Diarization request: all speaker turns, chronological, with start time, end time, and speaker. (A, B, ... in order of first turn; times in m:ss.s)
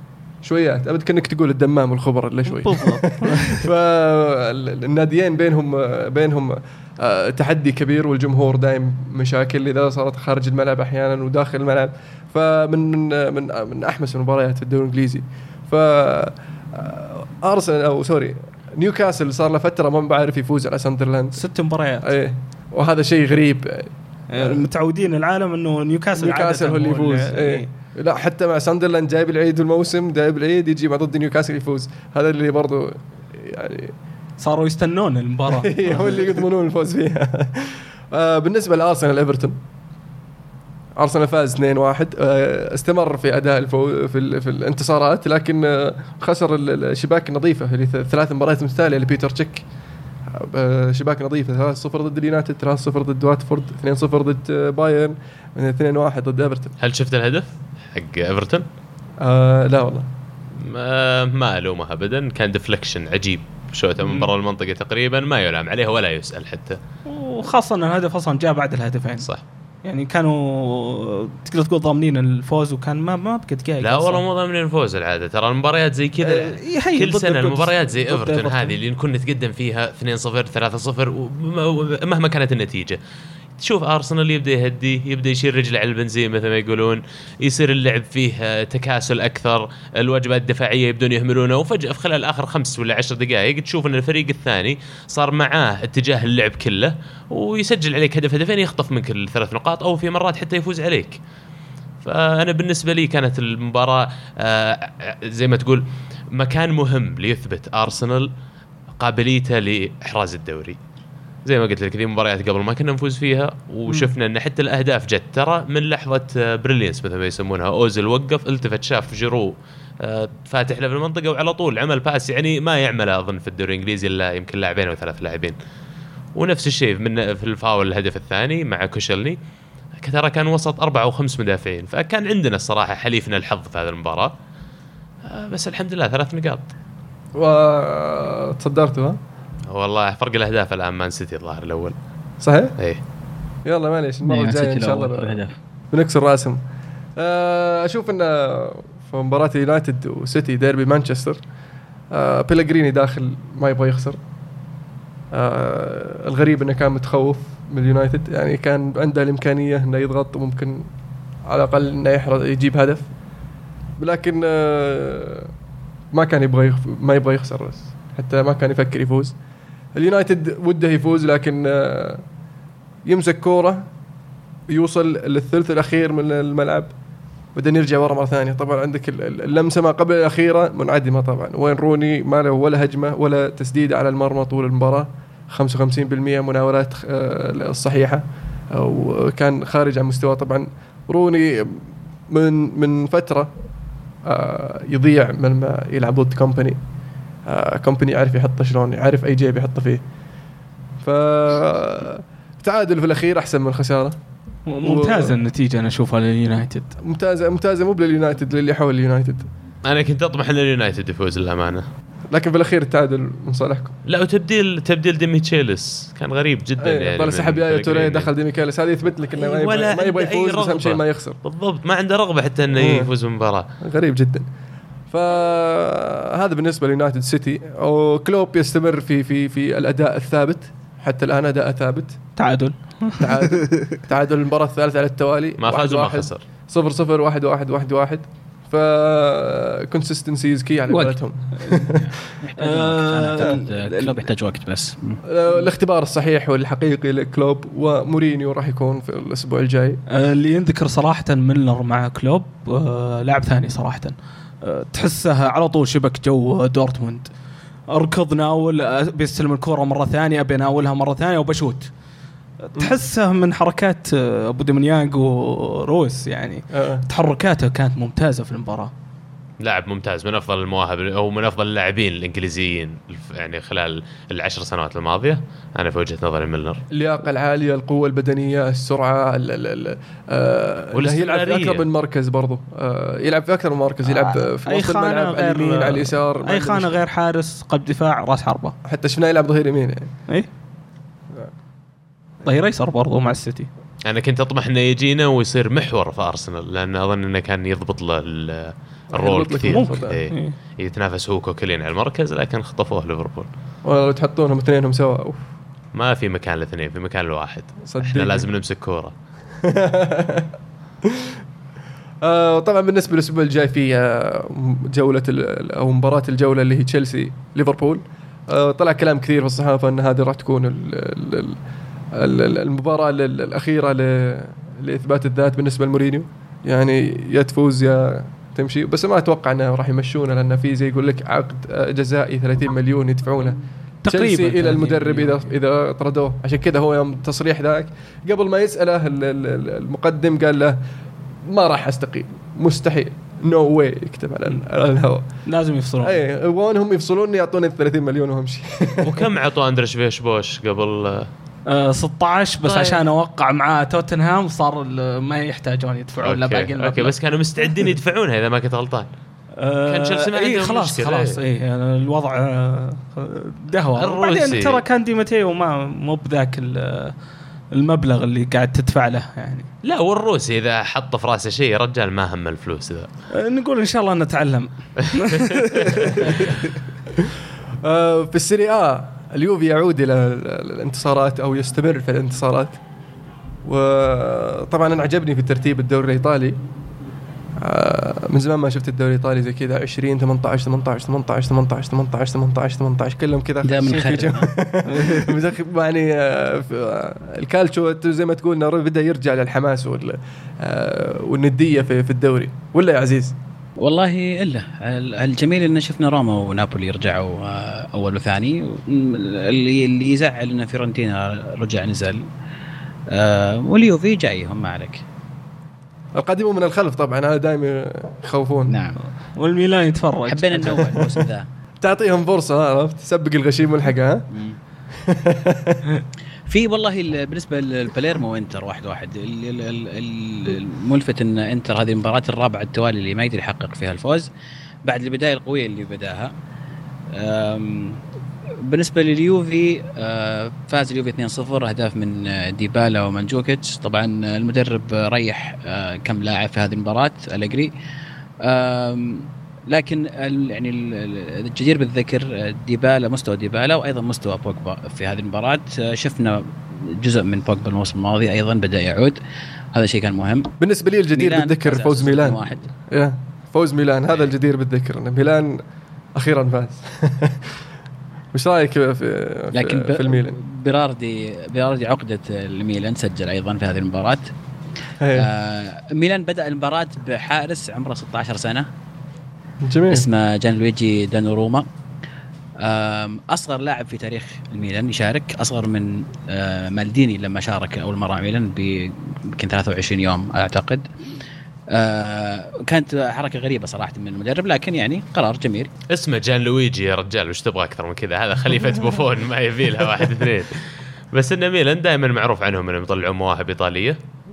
0:00.4-0:21.4 A
0:02.5-0:03.6 B
0:21.4-0:22.1 B
0:22.0-0:24.6 A
0:24.3-0:27.7 B
0:26.2-0:33.9 A
0:34.4-0:36.3 B
0:35.5-0:39.6 A
0:41.0-0:49.6 A
0:50.3-0:56.8 A
0:56.8-0:58.6 C
0:59.2-1:00.1 A
1:00.6-1:06.8 C
1:07.1-1:09.3 B
1:09.8-1:14.2 B
1:13.8-1:23.0 C
1:16.2-1:18.8 B
1:23.6-1:41.2 C
1:42.0-1:48.3 C
1:49.0-1:50.8 C
1:51.4-2:05.6 C
2:06.4-2:09.4 C
2:10.0-2:14.3 C
2:15.3-2:16.7 C
2:17.4-2:19.2 A
2:19.7-2:22.0 C
2:22.4-2:22.7 A
2:23.6-2:25.4 A
2:24.2-2:25.6 D
2:25.9-2:26.6 A
2:27.2-2:31.4 A
2:32.1-2:34.2 A
2:35.3-2:40.8 A
2:41.5-2:43.1 A
2:44.0-2:45.5 A
2:46.1-2:49.4 A
2:50.0-2:52.2 A
2:53.1-2:53.8 A
2:54.7-2:56.9 A
2:57.6-3:13.5 A
3:14.3-3:16.8 A
3:17.5-3:20.0 A
3:21.0-3:24.2 A
3:24.7-3:27.0 B
3:24.8-3:25.4 A
3:27.0-3:29.5 A
3:29.8-3:31.9 C
3:32.3-3:33.9 A
3:34.1-3:38.3 C
3:36.8-3:41.4 A
3:39.4-3:43.7 C
3:42.7-3:43.1 A
3:43.8-3:44.5 A
3:45.1-3:52.2 A
3:52.4-3:53.6 B
3:53.2-4:02.1 A
3:55.6-3:56.4 C
4:00.9-4:01.2 D
4:01.7-4:05.2 D
4:02.6-4:04.2 B
4:05.3-4:10.0 A
4:10.1-4:17.3 B
4:17.9-4:21.9 B
4:22.6-4:28.9 B
4:26.7-4:27.0 A
4:29.6-4:36.8 C
4:36.9-4:47.0 A
4:40.9-4:41.9 C
4:44.2-4:48.8 B
4:48.8-4:50.1 A
4:52.4-4:53.7 B
4:54.0-5:03.5 C
4:59.1-5:00.2 A
4:59.6-5:00.6 B
5:03.8-5:05.4 A
5:05.9-5:09.1 C
5:07.9-5:08.5 A
5:09.6-5:10.5 A
5:11.0-5:11.4 A
5:12.2-5:21.6 A
5:22.2-5:40.8 A
5:34.0-5:35.5 B
5:41.5-5:45.2 A
5:45.4-5:46.2 B
5:46.0-5:49.3 A
5:49.0-5:51.3 C
5:51.7-5:57.1 B
5:52.6-5:53.0 C
5:56.2-5:59.1 C
5:59.6-6:07.2 B
5:59.9-6:01.4 C
6:04.0-6:04.8 C
6:07.7-6:09.7 B
6:09.8-6:13.1 C
6:13.4-6:16.5 B
6:17.8-6:22.8 A
6:23.6-6:26.6 A
6:27.6-6:43.4 A
6:33.6-6:34.5 D
6:34.8-6:35.4 B
6:43.8-6:52.2 D
6:53.1-6:55.0 D
6:56.2-6:58.8 A
6:58.7-6:59.0 D
6:59.4-7:01.0 B
7:00.3-7:01.5 D
7:01.8-7:04.3 A
7:04.3-7:04.6 D
7:04.9-7:06.0 A
7:06.5-7:14.3 D
7:14.8-7:16.3 D
7:17.1-7:18.0 D
7:18.6-7:27.7 D
7:28.4-7:39.2 D
7:39.7-7:40.5 D
7:40.6-7:45.6 A
7:41.1-7:42.6 D
7:46.2-7:47.6 A
7:48.3-7:50.4 A
7:49.5-7:54.3 D
7:55.0-7:55.3 A
7:55.2-7:58.7 D
7:59.6-8:00.1 A
7:59.9-8:01.7 D
8:02.6-8:10.9 D
8:11.7-8:15.7 D
8:15.9-8:24.0 C